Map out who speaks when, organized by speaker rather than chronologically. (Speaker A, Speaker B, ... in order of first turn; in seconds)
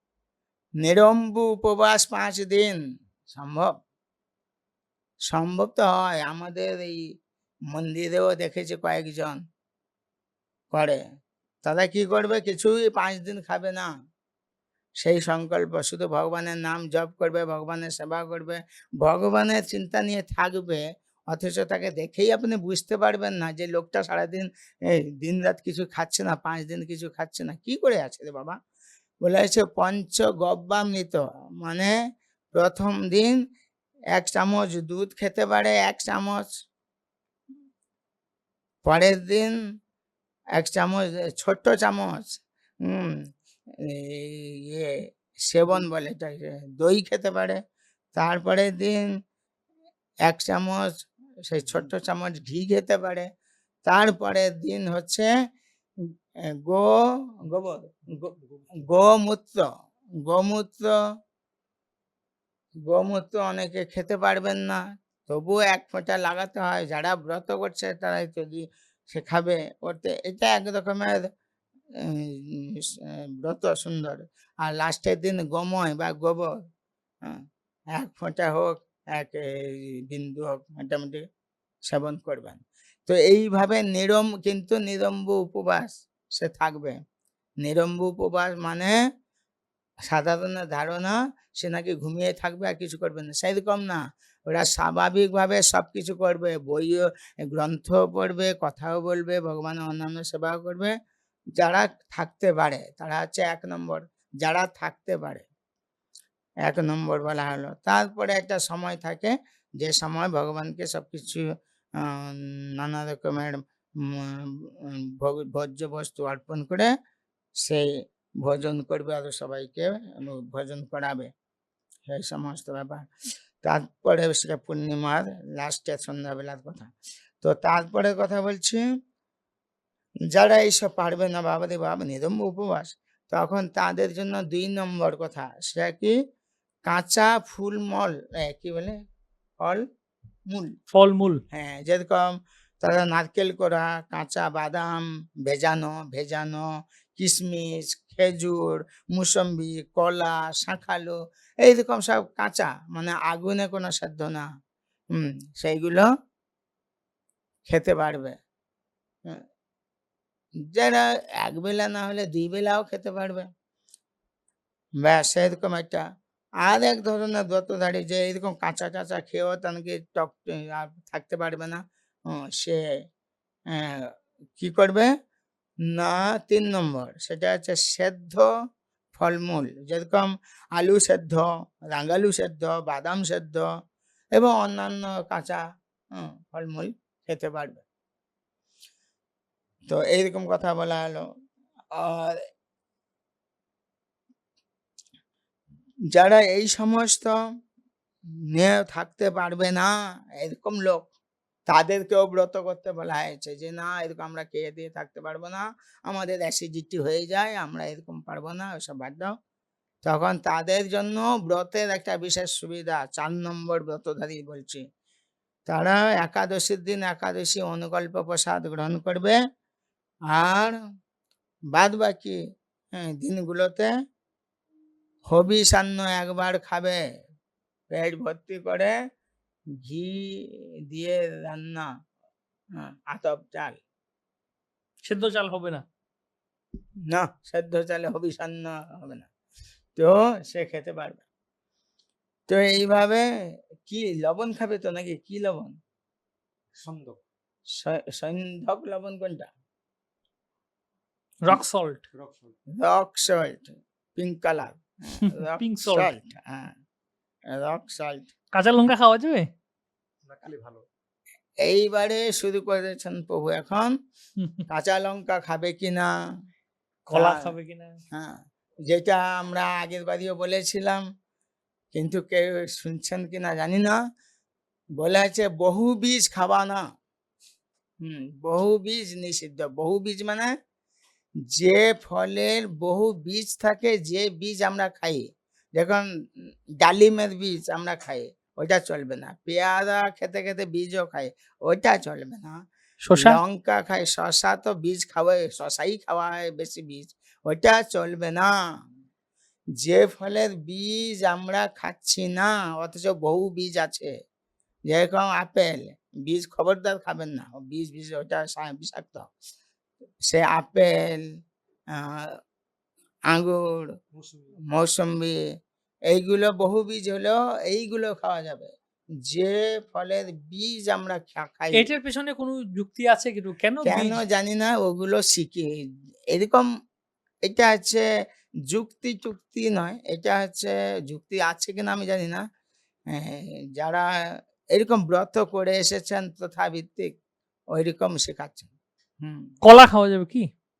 Speaker A: 0.8-3.7, 5.3-7.0, 7.7-9.4, 10.7-11.0, 11.6-13.9, 15.0-24.5, 25.2-28.6, 29.2-31.9, 32.5-33.4, 34.1-36.5, 38.8-39.5, 40.6-43.1, 43.8-44.9, 45.5-47.6, 48.1-49.0, 50.3-53.3, 53.9-55.3, 56.6-56.9, 57.4-59.6, 60.3-60.9, 62.9-71.3, 72.0-76.5, 78.0-81.2, 81.9-87.0, 87.6-88.9, 90.1-100.9, 101.6-105.5, 106.7-111.4, 112.0-116.9, 118.4-121.3, 122.1-123.1, 123.6-126.9, 127.4-128.8, 130.3-136.1, 136.9-138.9, 141.5-142.2, 142.8-146.7, 147.2-154.4, 155.1-156.1, 157.7-158.3, 160.7-163.4, 165.0-166.0, 166.6-172.8, 173.7-175.1, 175.9-178.4, 179.1-183.7, 184.3-185.6, 186.1-187.8, 189.9-191.2, 191.9-192.4, 196.1-197.4, 198.5-201.1, 201.7-209.3, 210.0-214.8, 215.7-219.4, 220.3-220.7, 221.7-222.4, 222.9-223.9, 225.3-227.0, 227.9-228.9, 229.8-231.9, 232.8-233.8, 237.1-239.3, 239.9-241.2, 242.5-243.2, 243.8-245.7, 247.7-249.5, 252.8-256.7, 257.5-258.3, 261.6-263.9, 264.7-266.1, 267.1-267.5, 268.1-271.0, 271.9-274.0, 275.0-276.8, 278.0-280.5, 281.5-286.0, 286.8-292.5, 293.1-298.5, 299.8-304.1, 304.9-309.2, 310.2-311.2, 311.9-312.3, 313.3-313.9, 314.7-315.4, 316.1-318.7, 319.2-321.9, 323.8-325.7, 326.3-326.7, 327.4-328.0, 328.7-332.4, 333.1-334.1, 334.7-337.1, 337.7-338.7, 339.2-339.5
Speaker B: 51.6-51.9, 58.1-58.8, 246.8-247.2, 252.1-252.5, 260.2-260.8, 314.1-314.5
Speaker C: 140.9-141.4, 235.0-235.8, 251.4-252.0, 255.2-256.1, 258.5-259.4, 267.1-267.9, 293.0-293.4, 321.7-324.2, 339.6-340.5